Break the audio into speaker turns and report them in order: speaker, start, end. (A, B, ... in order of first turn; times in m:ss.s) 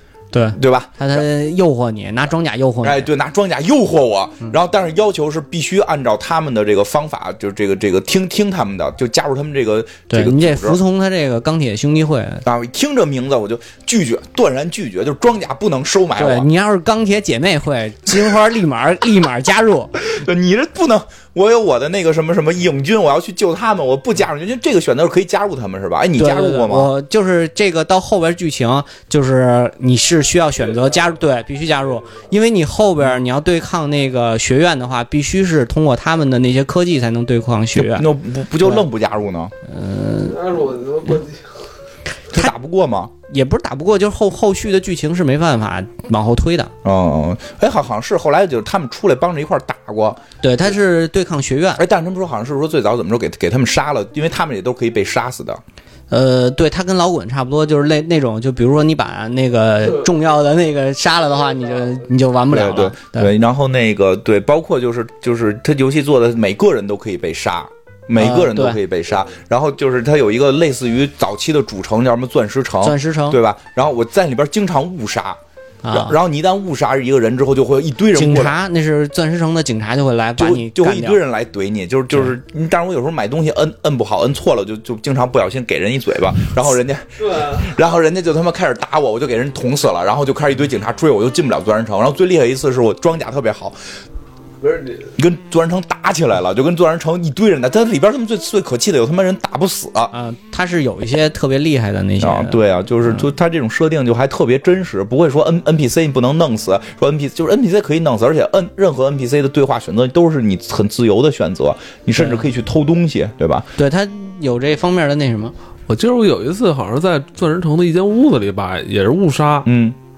0:00.3-0:03.1 A
0:00.5-0:01.2 B
0:02.8-0:10.8 B
0:10.1-0:12.4 A
0:12.4-0:16.5 B
0:16.2-0:20.0 A
0:20.1-0:26.9 B
0:26.2-0:38.1 A
0:37.7-0:39.5 B
0:39.6-0:40.5 A
0:40.3-0:41.6 C
0:42.3-0:43.1 B
0:43.3-0:46.7 A
0:46.8-0:50.2 B
0:50.4-0:51.8 A
0:51.8-0:55.6 B
0:56.1-1:03.3 A
1:02.5-1:15.4 B
1:08.2-1:08.8 A
1:12.8-1:13.4 A
1:15.8-1:16.2 A
1:15.9-1:18.5 B
1:18.1-1:21.2 A
1:20.4-1:33.8 B
1:34.6-1:35.1 C
1:35.2-1:40.1 B
1:40.1-1:43.2 A
1:42.2-1:53.6 B
1:52.2-1:52.5 A
1:53.8-1:55.5 A
1:55.9-1:59.7 C
1:59.6-2:00.0 B